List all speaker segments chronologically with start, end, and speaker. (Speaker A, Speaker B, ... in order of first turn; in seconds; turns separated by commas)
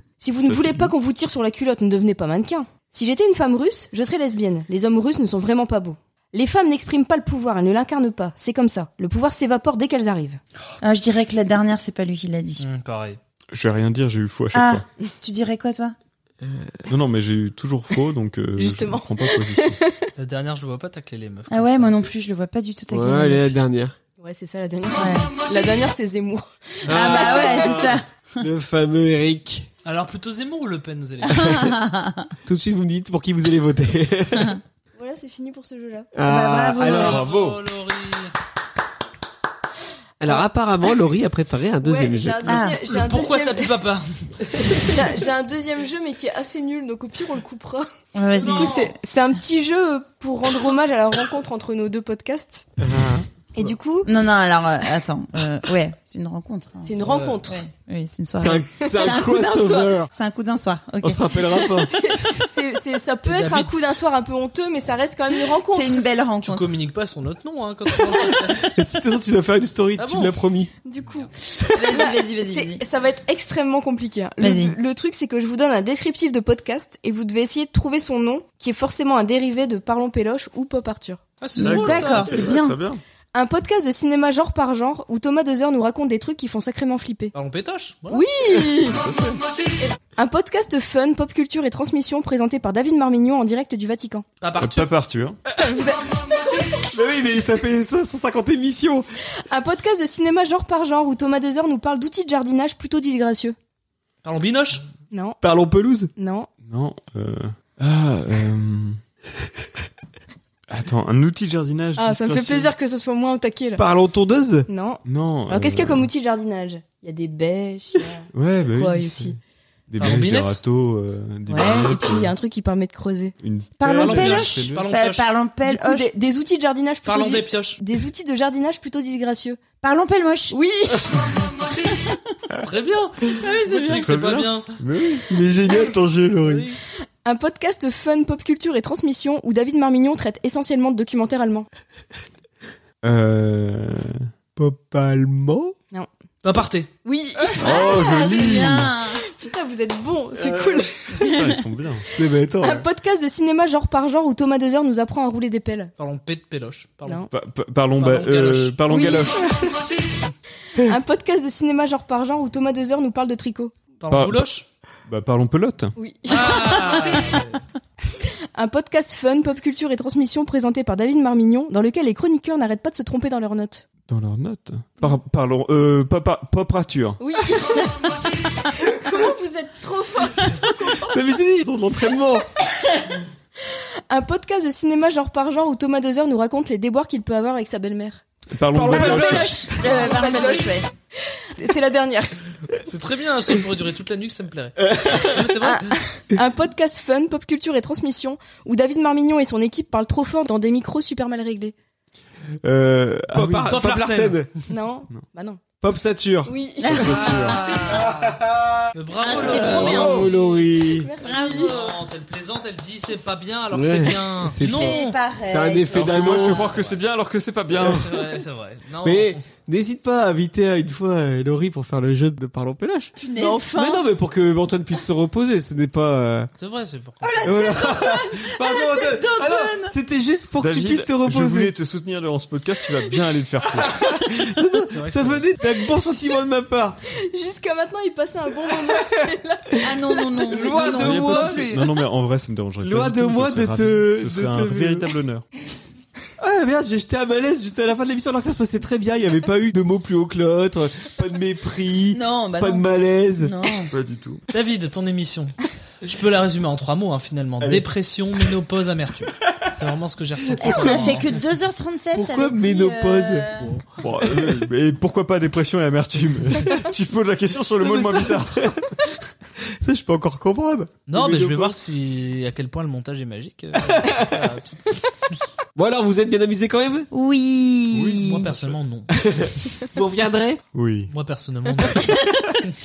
Speaker A: 0.2-10.4, Speaker B: 0.4-0.9, Speaker C: 10.8-12.6, Speaker D: 12.6-13.2, Speaker B: 13.5-14.8, Speaker C: 14.5-15.9, Speaker E: 16.4-16.9, Speaker B: 16.9-19.8, Speaker A: 18.6-20.1, Speaker D: 20.2-21.9, Speaker C: 21.5-23.6, Speaker E: 22.9-23.9, Speaker A: 24.2-27.8, Speaker C: 24.9-25.4, Speaker E: 26.9-29.7, Speaker C: 26.9-28.4, Speaker D: 29.8-31.5, Speaker C: 31.3-32.3, Speaker E: 31.4-31.7, Speaker E: 32.5-34.6, Speaker A: 35.0-36.1, Speaker E: 36.1-37.4, Speaker C: 36.2-37.4, Speaker D: 36.8-38.3, Speaker B: 36.9-37.6, Speaker E: 40.2-42.7, Speaker A: 41.8-43.8, Speaker C: 42.5-42.8, Speaker D: 42.8-44.0, Speaker A: 44.8-47.9, Speaker C: 48.1-48.9, Speaker D: 48.3-48.9, Speaker A: 48.4-52.6, Speaker E: 52.8-53.2, Speaker A: 53.5-54.1, Speaker C: 54.1-61.2, Speaker A: 56.8-57.6, Speaker D: 57.0-57.4, Speaker E: 58.4-60.1, Speaker A: 58.8-59.2, Speaker E: 61.0-62.0, Speaker A: 61.8-66.0, Speaker D: 63.2-63.7, Speaker C: 65.7-66.8, Speaker D: 66.4-68.7, Speaker E: 68.6-70.7, Speaker D: 70.0-70.4, Speaker A: 70.8-71.3, Speaker C: 71.7-72.8, Speaker A: 71.9-81.2, Speaker C: 74.4-74.8, Speaker D: 81.4-82.3, Speaker C: 81.5-82.8, Speaker B: 81.6-83.0, Speaker A: 83.3-87.3, Speaker D: 87.3-88.2, Speaker A: 88.1-89.0, Speaker B: 88.9-89.4, Speaker A: 90.1-94.2, Speaker D: 94.4-94.9, Speaker B: 94.6-95.4, Speaker A: 95.5-96.1, Speaker E: 96.8-99.0, Speaker A: 99.5-103.5, Speaker D: 104.2-104.8, Speaker A: 105.1-105.4, Speaker E: 105.4-106.1, Speaker A: 106.2-106.5, Speaker B: 106.6-109.0, Speaker B: 110.7-112.7, Speaker A: 112.0-113.8, Speaker E: 113.8-114.7, Speaker A: 114.7-119.4, Speaker B: 115.0-116.1, Speaker B: 118.3-119.3, Speaker B: 119.9-122.3, Speaker D: 120.0-120.6, Speaker A: 121.5-123.3, Speaker B: 123.4-124.9, Speaker C: 123.8-126.1, Speaker D: 123.9-125.3, Speaker A: 125.7-129.6, Speaker D: 127.0-127.8, Speaker C: 129.8-130.6, Speaker A: 130.5-131.4, Speaker D: 132.6-134.7, Speaker C: 133.4-134.2, Speaker B: 133.8-135.3, Speaker E: 135.3-136.6, Speaker D: 136.4-136.8, Speaker A: 137.2-141.7, Speaker B: 143.0-144.2, Speaker E: 144.6-145.7, Speaker D: 146.4-146.9, Speaker A: 147.0-147.9, Speaker C: 147.4-149.2, Speaker B: 147.6-148.9, Speaker A: 149.2-151.4, Speaker E: 150.4-150.8, Speaker B: 151.2-152.1, Speaker E: 152.2-152.8, Speaker A: 152.6-155.9, Speaker D: 156.0-157.2, Speaker B: 157.3-159.8, Speaker D: 158.0-158.8, Speaker A: 158.9-159.7, Speaker A: 160.8-163.7, Speaker D: 164.0-164.6, Speaker B: 164.1-164.5, Speaker B: 165.1-165.9, Speaker A: 166.0-167.2, Speaker D: 166.3-167.6, Speaker A: 168.5-173.8, Speaker B: 174.1-177.2, Speaker A: 177.2-178.0, Speaker A: 178.6-181.2, Speaker E: 181.1-182.5, Speaker A: 183.7-188.2, Speaker B: 188.5-189.9, Speaker C: 188.7-190.9, Speaker E: 188.8-190.5, Speaker A: 190.0-192.4, Speaker D: 192.8-195.9, Speaker E: 194.8-195.4, Speaker A: 195.6-201.7, Speaker B: 202.6-203.7, Speaker E: 203.3-204.5, Speaker D: 203.6-204.5, Speaker A: 204.7-205.6, Speaker E: 205.8-206.5, Speaker A: 206.4-207.4, Speaker C: 206.8-208.1, Speaker B: 206.9-207.6, Speaker D: 207.5-208.0, Speaker E: 208.0-208.8, Speaker D: 208.9-210.2, Speaker C: 209.2-210.3, Speaker E: 209.3-211.1, Speaker B: 209.8-210.0, Speaker A: 210.2-211.7, Speaker C: 211.2-211.8, Speaker D: 211.2-215.2, Speaker E: 213.7-216.7, Speaker C: 214.6-216.7, Speaker B: 215.9-218.2, Speaker D: 216.5-217.0, Speaker D: 217.8-219.4, Speaker E: 219.0-223.1, Speaker C: 223.2-223.7, Speaker A: 223.3-224.1, Speaker E: 223.7-226.5, Speaker D: 226.6-227.4, Speaker C: 227.2-229.9, Speaker E: 227.4-231.7, Speaker B: 230.6-234.0, Speaker E: 233.7-237.0, Speaker D: 234.9-235.5, Speaker A: 237.2-240.9, Speaker C: 239.8-241.9, Speaker E: 240.5-241.7, Speaker B: 240.9-245.4, Speaker E: 242.8-245.1, Speaker E: 246.4-253.5, Speaker C: 252.1-252.8, Speaker C: 253.4-253.9, Speaker B: 253.9-254.4, Speaker D: 254.5-261.3, Speaker C: 260.6-263.8, Speaker E: 260.6-261.3, Speaker E: 262.1-263.6, Speaker B: 264.0-268.9, Speaker E: 267.8-268.8, Speaker E: 269.8-271.8, Speaker D: 271.1-274.8, Speaker E: 273.8-274.4, Speaker E: 275.8-277.1, Speaker C: 277.1-278.5, Speaker B: 277.9-278.8, Speaker D: 278.2-279.1, Speaker E: 279.1-280.6, Speaker B: 280.7-281.1, Speaker D: 281.1-282.1, Speaker C: 282.1-282.4